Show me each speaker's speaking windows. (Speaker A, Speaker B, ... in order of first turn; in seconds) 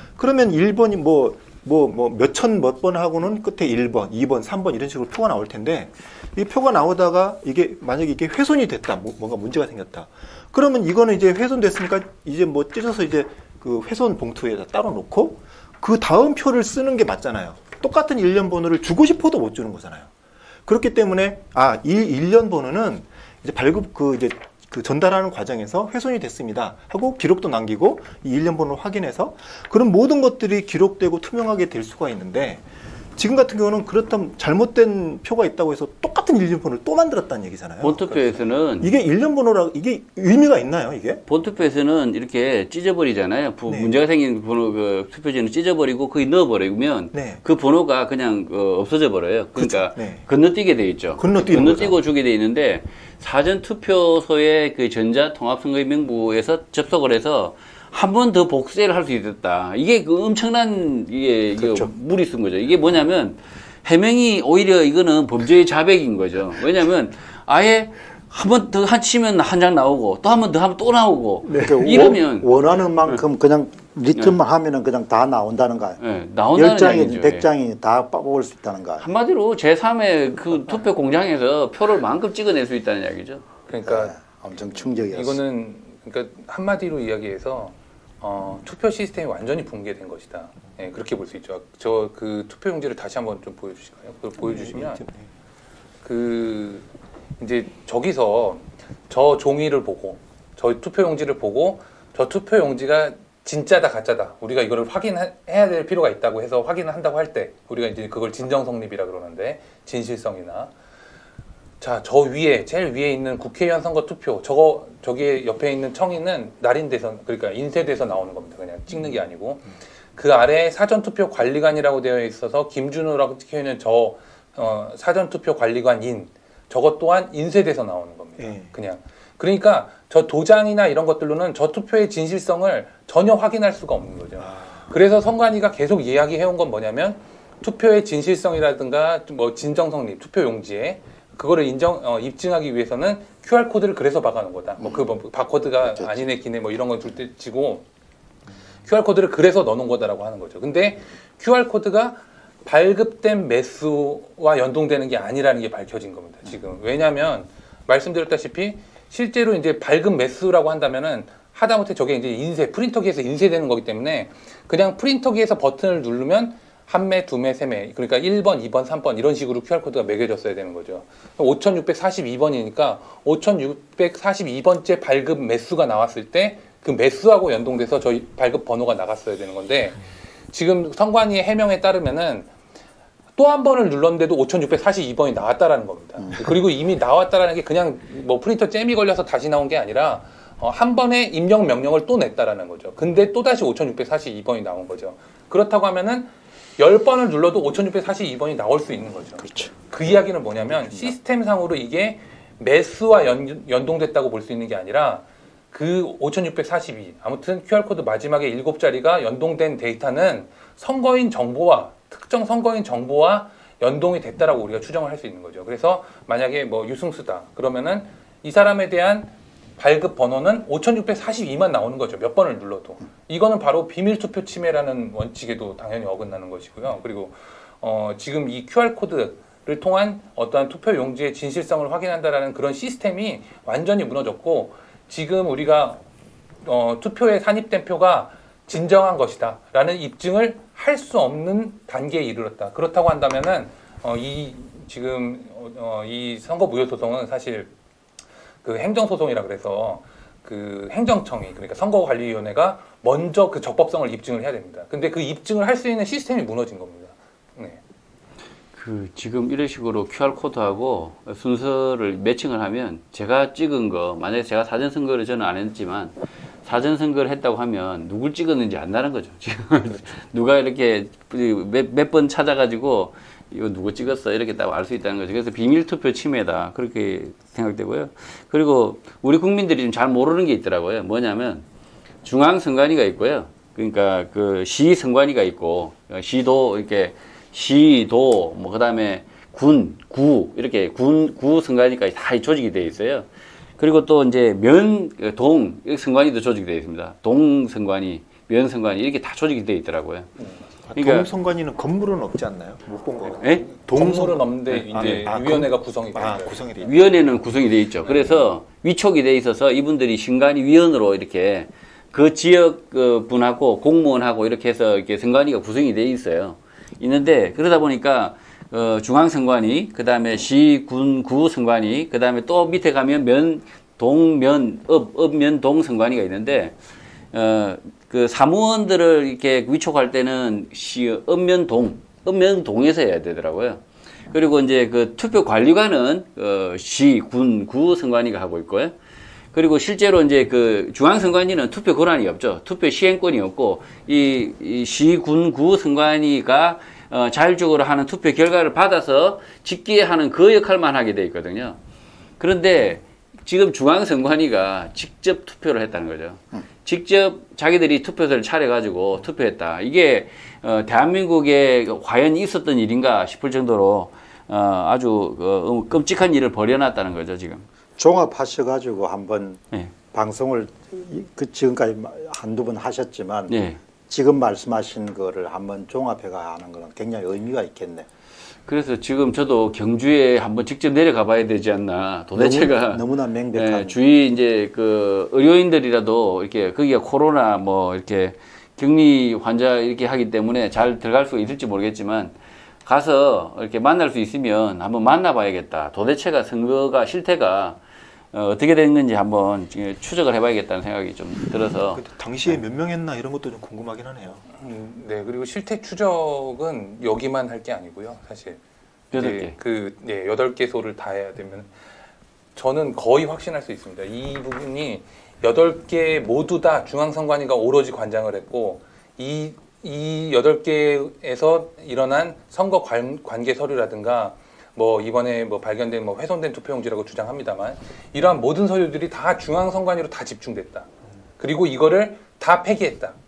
Speaker A: 0.2-20.1, 20.7-32.6, 33.2-41.2, 43.7-44.0, 47.1-47.4, 49.5-50.3, 51.2-52.0, 71.5-72.2, 94.4-95.3, 128.4-128.7, 134.4-134.8, 300.9-307.1, 401.9-404.4
Speaker B: 37.8-38.9, 41.3-72.5, 76.0-77.5, 79.0-83.4, 258.8-281.6, 282.2-300.3, 300.9-301.3, 303.4-303.7, 304.7-305.2, 306.8-326.8, 327.3-333.8, 334.3-338.9, 339.5-351.8, 352.4-367.6, 373.5-373.8, 378.7-392.3, 392.9-397.8, 398.3-402.0, 409.1-409.6
Speaker C: 61.6-61.9, 71.6-76.0, 76.5-79.1, 83.8-85.4, 144.8-145.1, 145.8-146.3, 186.2-186.5, 199.4-199.9, 200.8-201.1, 368.0-369.6, 370.1-373.6, 374.1-378.1, 382.4-384.0
Speaker D: 83.7-84.2, 85.0-95.0, 96.0-96.9, 97.4-110.7, 111.8-147.8, 148.8-182.5, 183.4-236.0, 236.6-247.7, 248.6-257.8, 303.9-306.8, 404.6-408.6, 409.1-411.8, 412.6-433.2